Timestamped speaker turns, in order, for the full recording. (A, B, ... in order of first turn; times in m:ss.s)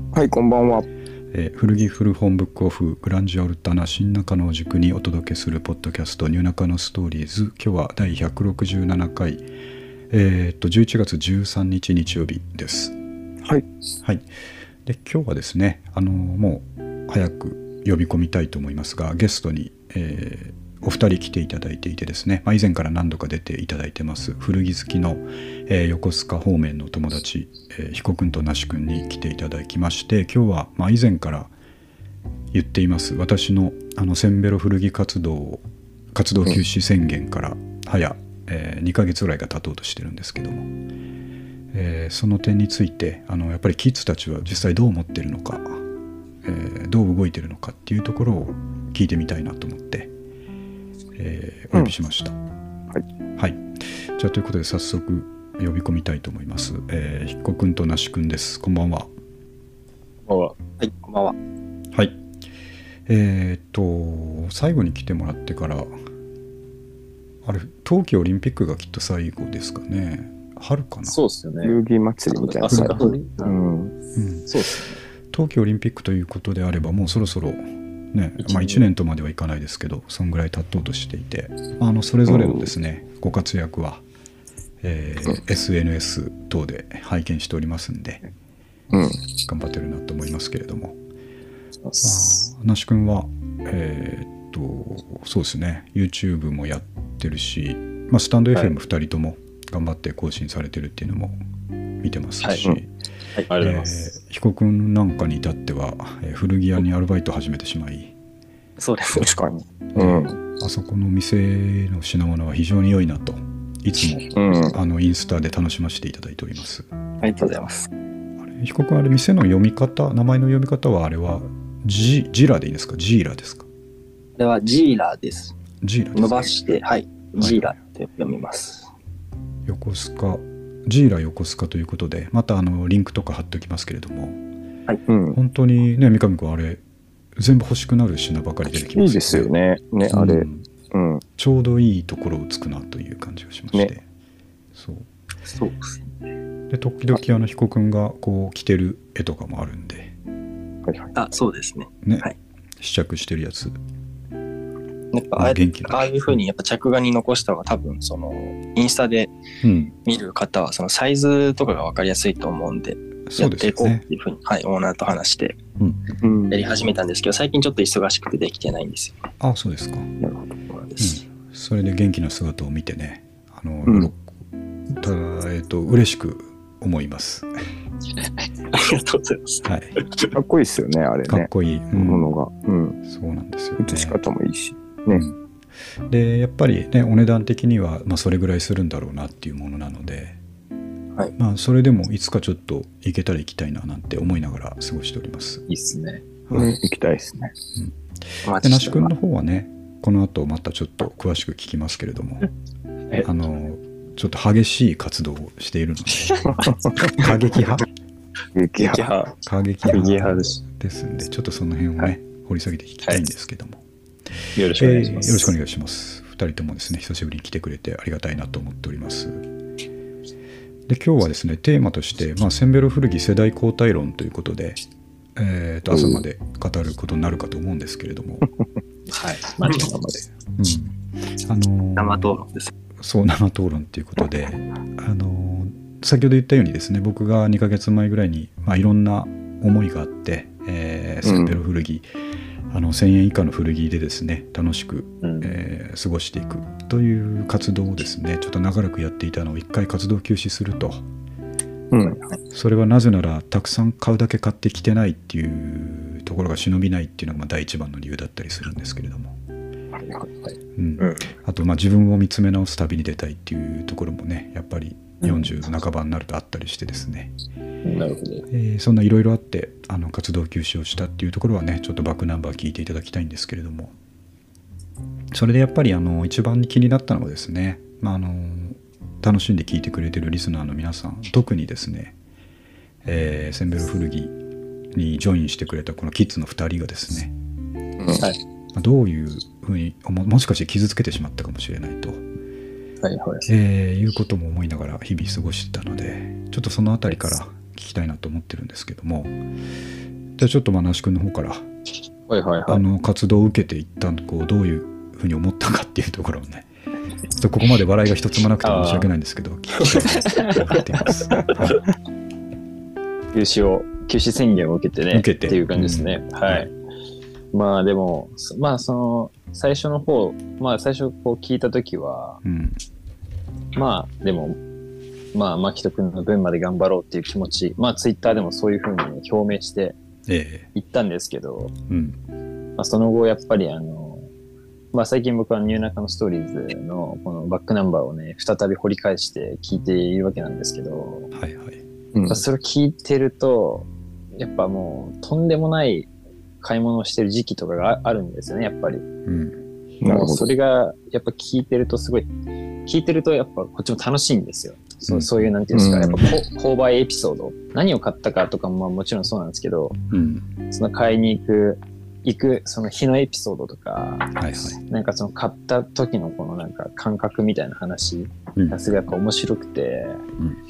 0:00.1-0:00.9 A
0:01.3-0:09.4 B
0:10.1-0:13.0 B
0:14.8-0:31.5 B
0:32.5-0:35.6 B
0:36.1-0:40.7 B
0:41.7-0:45.8 B
0:46.4-0:50.1 B
0:51.2-0:52.4 B
0:53.4-0:59.1 B
1:00.3-1:00.5 C
1:00.8-1:01.4 D
1:01.9-1:02.2 B
1:03.1-1:05.9 B
1:07.4-1:11.2 B
1:11.0-1:11.8 C
1:11.6-1:13.9 A
1:12.3-1:13.6 C
1:14.2-1:14.5 B
1:14.5-1:15.0 C
1:15.3-1:24.0 B
1:22.3-1:22.7 A
1:24.8-1:28.2 B
1:28.9-1:29.2 A
1:29.5-1:31.0 B
1:32.0-1:41.4 B
1:42.0-1:42.9 B
1:43.5-1:44.0 C
1:43.6-1:48.1 B
1:48.8-1:49.3 D
1:49.1-1:50.3 A
1:49.9-1:56.9 B
1:54.3-1:54.8 A
1:57.2-1:57.9 D
1:58.4-2:03.7 B
2:04.4-2:05.6 D
2:05.8-2:06.8 B
2:06.2-2:08.9 D
2:07.4-2:07.7 B
2:09.7-2:14.4 B
2:15.1-2:15.4 A
2:15.3-2:16.8 B
2:17.4-2:19.5 B
2:18.9-2:21.2 A
2:20.1-2:20.7 B
2:21.4-2:24.0 B
2:24.8-2:25.1 B
2:25.5-2:26.1 D
2:26.7-2:30.1 B
2:30.8-2:31.1 A
2:31.2-2:32.3 D
2:32.0-2:33.8 B
2:35.1-2:39.3 D
2:35.4-2:36.1 B
2:39.6-2:39.9 B
2:40.0-2:45.6 D
2:43.3-2:44.0 B
2:45.8-2:46.1 B
2:46.2-2:46.6 A
2:46.5-2:49.2 D
2:49.4-2:50.1 B
2:50.2-2:50.8 A
2:50.8-2:51.2 D
2:51.0-2:54.2 B
2:53.9-2:54.1 A
2:54.9-2:57.5 B
2:58.7-3:00.3 D
2:59.6-2:59.9 B
3:00.3-3:03.0 A
3:01.3-3:02.3 B
3:03.1-3:04.2 B
3:03.8-3:05.2 A
3:05.1-3:05.4 B
3:06.1-3:10.4 B
3:11.4-3:15.6 B
3:15.7-3:16.2 C
3:16.5-3:16.8 B
3:16.5-3:17.5 A
3:17.8-3:22.5 B
3:18.4-3:19.1 D
3:23.2-3:27.9 B
3:26.4-3:27.2 A
3:28.6-3:29.1 A
3:28.8-3:29.3 C
3:29.4-3:33.8 B
3:29.9-3:30.6 C
3:34.6-3:35.5 C
3:34.8-3:39.4 B
3:40.9-3:44.8 B
3:45.4-3:48.5 B
3:45.9-3:46.2 A
3:49.1-3:50.2 C
3:50.6-3:51.0 B
3:51.5-3:52.3 B
3:52.0-3:52.7 D
3:53.0-4:02.1 B
4:01.2-4:01.6 A
4:02.7-4:11.0 B
4:05.2-4:05.5 C
4:11.9-4:12.2 A
4:12.1-4:12.4 D
4:12.5-4:19.4 B
4:20.0-4:20.4 A
4:20.8-4:27.3 B
4:21.0-4:21.2 D
4:27.8-4:28.4 C
4:28.5-4:33.9 B
4:35.3-4:42.1 B
4:43.0-4:44.4 B
4:44.9-4:47.3 B
4:48.0-4:48.2 A
4:48.7-4:52.2 B
4:53.0-4:53.5 C
4:53.5-4:59.4 B
5:00.4-5:01.7 B
5:02.3-5:02.8 C
5:02.7-5:06.7 B
5:07.4-5:11.8 B
5:08.6-5:09.1 C
5:09.8-5:10.8 C
5:11.3-5:11.6 C
5:13.3-5:16.7 C
5:15.1-5:16.7 B
5:17.5-5:22.4 C
5:22.4-5:22.8 B
5:23.8-5:24.6 C
5:25.3-5:30.0 C
5:30.3-5:30.7 B
5:30.8-5:31.7 C
5:31.9-5:32.2 B
5:32.8-5:34.3 C
5:34.9-5:41.3 C
5:41.4-5:41.8 B
5:42.1-5:42.4 A
5:42.3-5:46.1 C
5:46.6-5:49.1 C
5:49.2-5:49.6 B
5:50.0-5:50.5 A
5:50.0-5:52.3 C
5:52.9-6:00.0 C
5:55.1-5:55.5 B
5:55.7-5:56.3 A
6:00.1-6:00.4 B
6:00.7-6:10.2 C
6:04.4-6:04.8 B